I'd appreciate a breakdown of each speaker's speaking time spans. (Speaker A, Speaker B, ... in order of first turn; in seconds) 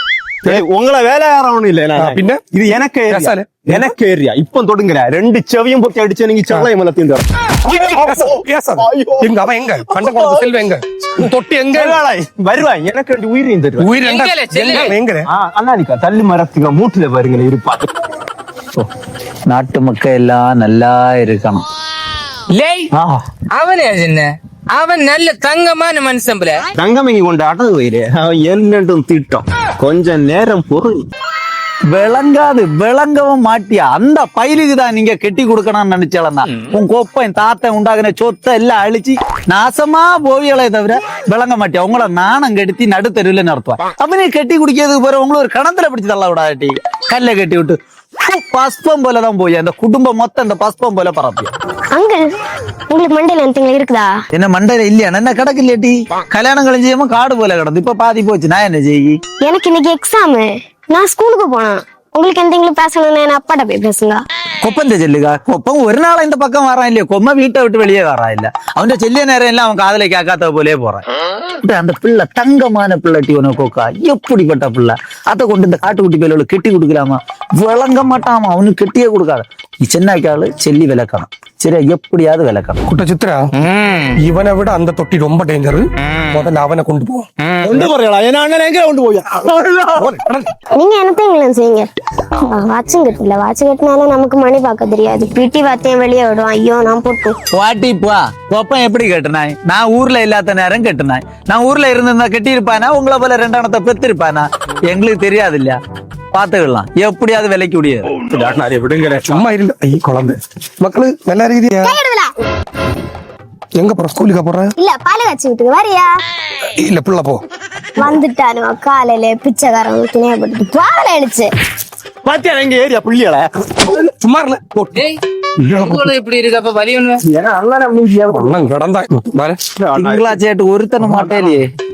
Speaker A: 0.4-9.3, 9.9-10.5, 11.7-13.9, 15.3-17.8, 26.8-31.0, 87.6-90.1, 108.2-109.4, 122.2-124.0, 127.2-128.5, 129.8-130.4
Speaker B: 1.9-2.4, 3.1-3.9, 8.0-12.0, 13.8-15.3, 82.9-83.4, 84.2-87.3, 90.0-90.5, 109.3-111.9, 113.7-114.7, 116.8-117.4, 124.2-125.0, 125.7-126.0, 128.3-129.6
Speaker C: 14.0-15.0, 22.5-22.9, 23.5-26.6, 83.6-84.2, 86.0-86.4, 87.4-87.8, 125.0-127.2
Speaker D: 19.5-21.6, 31.9-51.5, 54.3-59.2, 64.6-71.0, 71.6-82.8, 97.5-105.8, 106.3-108.1, 129.9-131.7
Speaker E: 51.9-52.3, 52.9-54.1, 59.4-64.2, 90.7-91.9, 92.4-97.3, 111.8-112.3, 114.8-116.2, 118.0-121.5